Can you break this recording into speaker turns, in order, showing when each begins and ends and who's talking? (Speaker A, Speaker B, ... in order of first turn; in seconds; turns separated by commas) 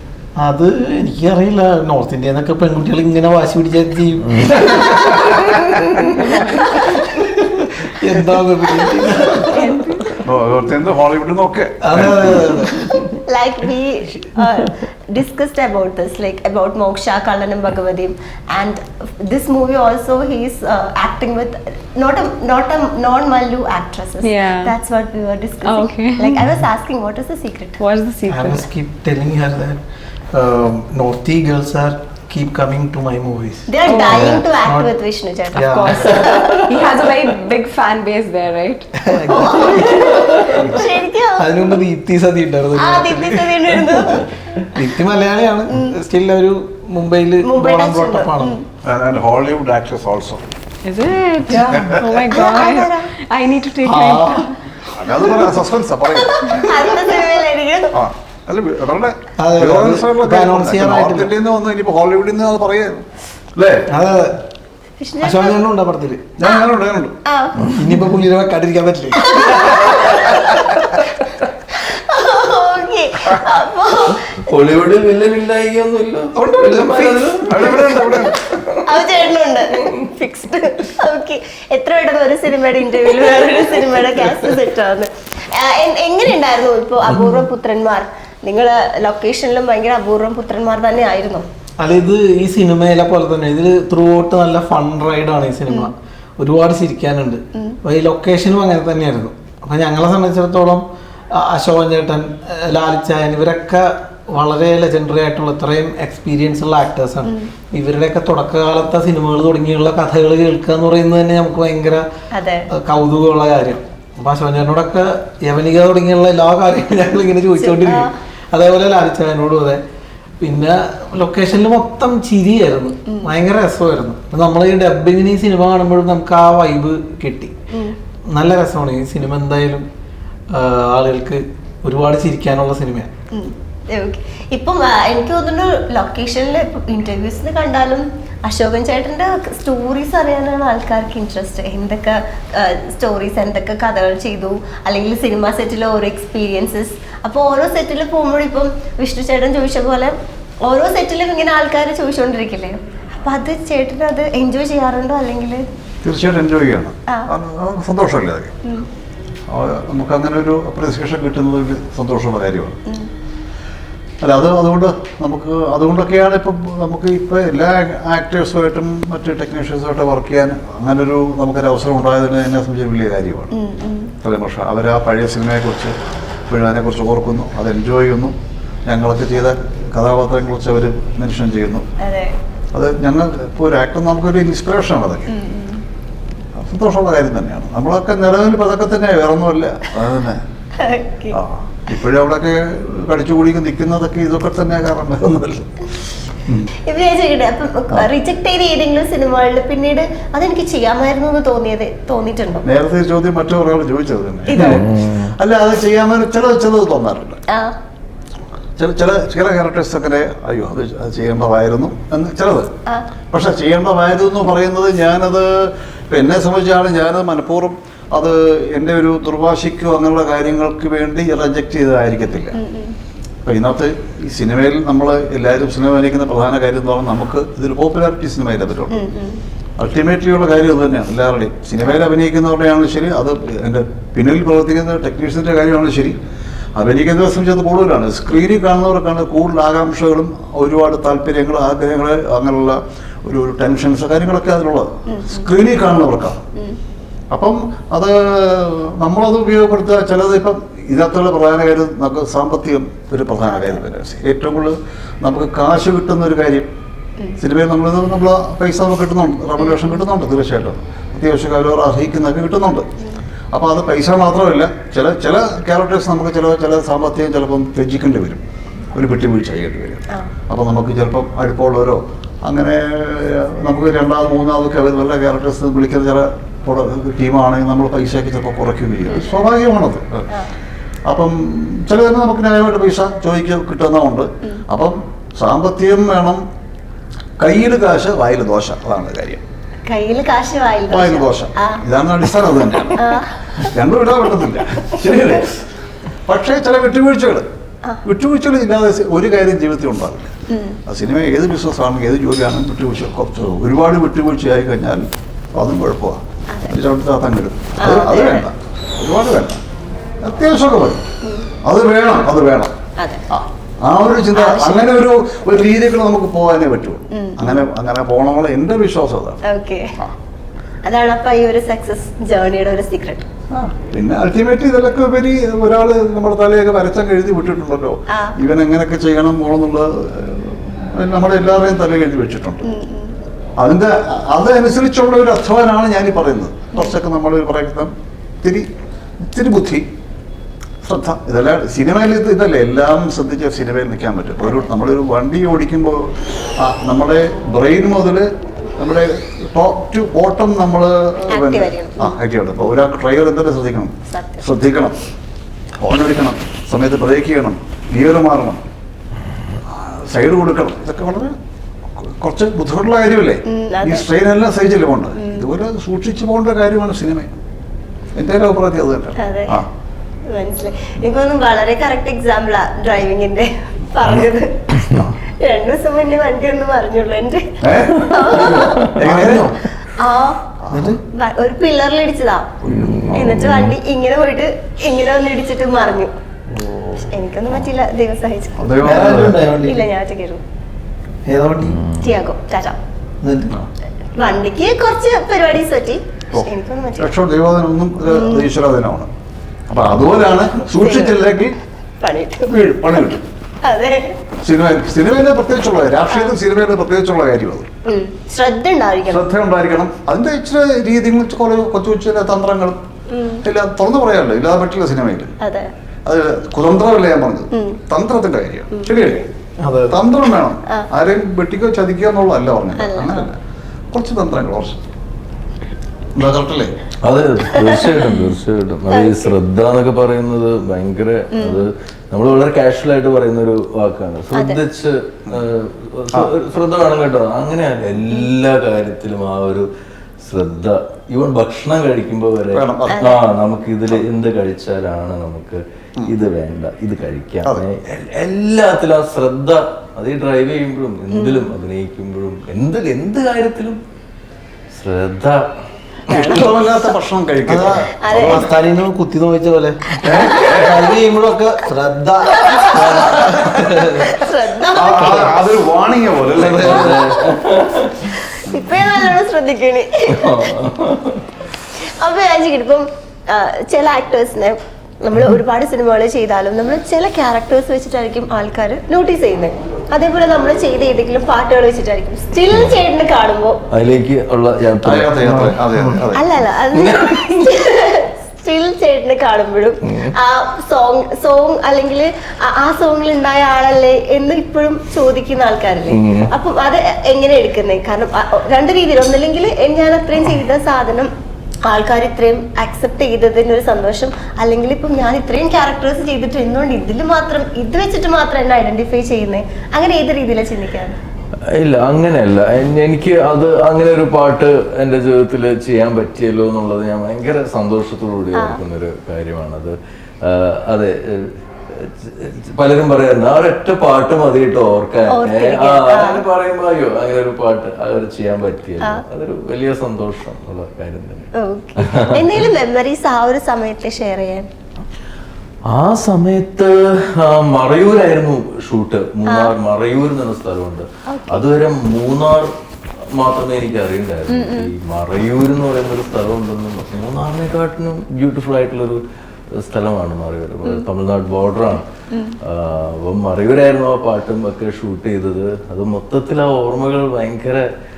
Speaker A: 0.4-9.8, Speaker B: 9.6-10.1, Speaker C: 10.2-12.7, Speaker A: 11.8-13.1, Speaker D: 13.3-27.8, Speaker B: 24.2-24.8, Speaker B: 25.6-26.5, Speaker B: 27.8-28.6, Speaker A: 28.3-29.8, Speaker A: 30.3-34.9, Speaker D: 33.7-36.7, Speaker B: 33.9-34.4, Speaker A: 35.5-36.6, Speaker B: 36.6-38.9, Speaker A: 39.0-40.0, Speaker D: 39.3-41.5, Speaker A: 41.4-44.0, Speaker D: 42.8-44.3, Speaker A: 44.7-48.6, Speaker D: 45.7-46.0, Speaker D: 47.4-48.6, Speaker C: 48.8-50.5, Speaker B: 50.8-54.6, Speaker C: 51.7-52.2, Speaker D: 52.3-53.1, Speaker A: 53.8-54.5, Speaker C: 54.9-56.5, Speaker D: 56.1-58.0, Speaker C: 57.9-63.0, Speaker A: 59.4-61.3, Speaker C: 63.5-63.9, Speaker A: 63.9-64.4, Speaker D: 65.0-65.6, Speaker A: 65.2-66.2, Speaker C: 66.4-67.2, Speaker D: 67.2-67.6, Speaker A: 67.7-70.0, Speaker D: 69.2-71.0, Speaker D: 71.7-74.4, Speaker E: 74.4-78.6, Speaker A: 76.3-77.8, Speaker C: 77.5-78.4, Speaker D: 78.8-91.5, Speaker A: 91.8-112.1, Speaker D: 107.2-107.5, Speaker D: 112.3-112.7, Speaker A: 112.7-119.8, Speaker D: 117.6-118.1, Speaker A: 120.4-127.5, Speaker D: 127.7-128.0, Speaker A: 128.3-129.9, Speaker A: 130.5-133.1, Speaker D: 133.3-155.7, Speaker C: 156.0-158.6, Speaker C: 159.5-162.8, Speaker C: 164.2-173.5, Speaker D: 173.5-174.1, Speaker C: 174.2-175.9, Speaker C: 176.5-178.3, Speaker C: 178.9-181.9, Speaker D: 182.0-182.3, Speaker C: 182.7-185.3, Speaker D: 185.3-185.8, Speaker C: 186.6-190.4, Speaker D: 190.8-191.4, Speaker C: 191.3-195.7, Speaker C: 196.4-196.7, Speaker D: 196.8-202.7, Speaker C: 202.7-207.4, Speaker D: 204.5-204.8, Speaker E: 204.6-205.3, Speaker D: 207.5-207.8, Speaker C: 208.8-212.7, Speaker C: 213.3-222.6, Speaker D: 222.6-222.9, Speaker C: 223.4-229.1, Speaker D: 228.9-229.4, Speaker C: 229.8-236.2, Speaker C: 236.8-246.5, Speaker D: 245.1-245.5, Speaker C: 247.3-256.7, Speaker D: 253.5-253.8, Speaker C: 257.4-262.9, Speaker C: 263.5-280.3, Speaker C: 281.1-286.4, Speaker C: 287.4-289.4, Speaker D: 289.9-291.8, Speaker C: 290.9-295.5, Speaker D: 293.0-293.6, Speaker C: 296.3-297.5, Speaker C: 298.0-300.3, Speaker D: 300.5-300.8, Speaker C: 300.9-309.6, Speaker D: 307.8-308.5, Speaker C: 310.2-311.1, Speaker C: 311.6-312.8, Speaker C: 313.3-319.4, Speaker D: 314.4-314.9, Speaker D: 317.1-317.4, Speaker D: 319.4-319.9, Speaker D: 320.8-323.3, Speaker C: 323.5-332.6, Speaker D: 328.1-328.4, Speaker D: 332.6-333.1, Speaker C: 333.6-338.7, Speaker C: 339.2-339.9, Speaker C: 340.8-355.0, Speaker D: 351.3-352.1, Speaker D: 354.1-354.4, Speaker C: 355.8-358.6, Speaker C: 359.7-361.4, Speaker C: 362.0-367.4, Speaker D: 363.5-364.1, Speaker D: 365.2-365.5, Speaker C: 368.1-369.7, Speaker D: 369.2-369.6, Speaker D: 370.3-378.9, Speaker C: 377.6-379.5, Speaker E: 378.1-378.9, Speaker A: 379.0-379.6, Speaker D: 379.9-380.4, Speaker C: 380.7-381.0, Speaker A: 380.7-381.0, Speaker D: 381.1-382.5, Speaker E: 382.6-383.8, Speaker D: 383.1-386.1, Speaker D: 387.0-388.9, Speaker C: 388.6-389.5, Speaker A: 388.8-389.9, Speaker D: 389.6-390.4, Speaker A: 391.3-391.9, Speaker E: 391.6-392.0, Speaker D: 391.9-392.8, Speaker A: 393.2-393.6, Speaker D: 394.2-397.1, Speaker C: 396.3-399.1, Speaker D: 398.1-398.5, Speaker C: 399.7-401.6, Speaker D: 400.8-401.2, Speaker D: 402.0-402.5, Speaker C: 402.5-403.2, Speaker D: 403.6-404.2, Speaker C: 404.4-407.7, Speaker D: 407.9-409.2, Speaker C: 409.1-412.8, Speaker D: 413.1-413.4, Speaker C: 413.4-415.3, Speaker D: 415.4-415.7, Speaker C: 416.1-419.3, Speaker D: 417.5-417.8, Speaker A: 419.6-420.0, Speaker C: 419.9-423.4, Speaker D: 422.8-423.3, Speaker C: 423.9-424.8, Speaker C: 426.1-426.8, Speaker E: 427.0-439.7, Speaker D: 427.6-427.8, Speaker D: 428.9-429.2, Speaker D: 431.3-431.7, Speaker E: 440.2-453.8, Speaker C: 442.5-443.2, Speaker D: 442.9-443.2, Speaker D: 451.1-451.5, Speaker E: 454.7-455.4, Speaker E: 456.1-456.5, Speaker C: 456.1-458.5, Speaker D: 456.1-456.5, Speaker A: 457.5-463.9, Speaker D: 458.0-458.5, Speaker C: 460.0-460.9, Speaker D: 462.4-462.8, Speaker E: 462.8-464.1, Speaker D: 464.0-465.3, Speaker C: 464.7-467.0, Speaker A: 464.9-465.3, Speaker E: 466.4-468.1, Speaker A: 466.5-466.8, Speaker D: 468.4-470.5, Speaker E: 470.1-471.3, Speaker D: 471.8-483.6, Speaker E: 483.7-486.0, Speaker C: 484.8-486.3, Speaker D: 486.1-501.1, Speaker E: 486.7-487.6, Speaker E: 495.9-496.3, Speaker D: 501.6-511.0, Speaker E: 511.5-532.5, Speaker D: 525.1-526.2, Speaker D: 531.4-534.5, Speaker E: 535.7-542.5, Speaker D: 541.1-541.4, Speaker E: 543.1-549.0, Speaker D: 544.3-544.7, Speaker E: 549.6-551.9, Speaker D: 552.1-552.4, Speaker E: 552.4-557.7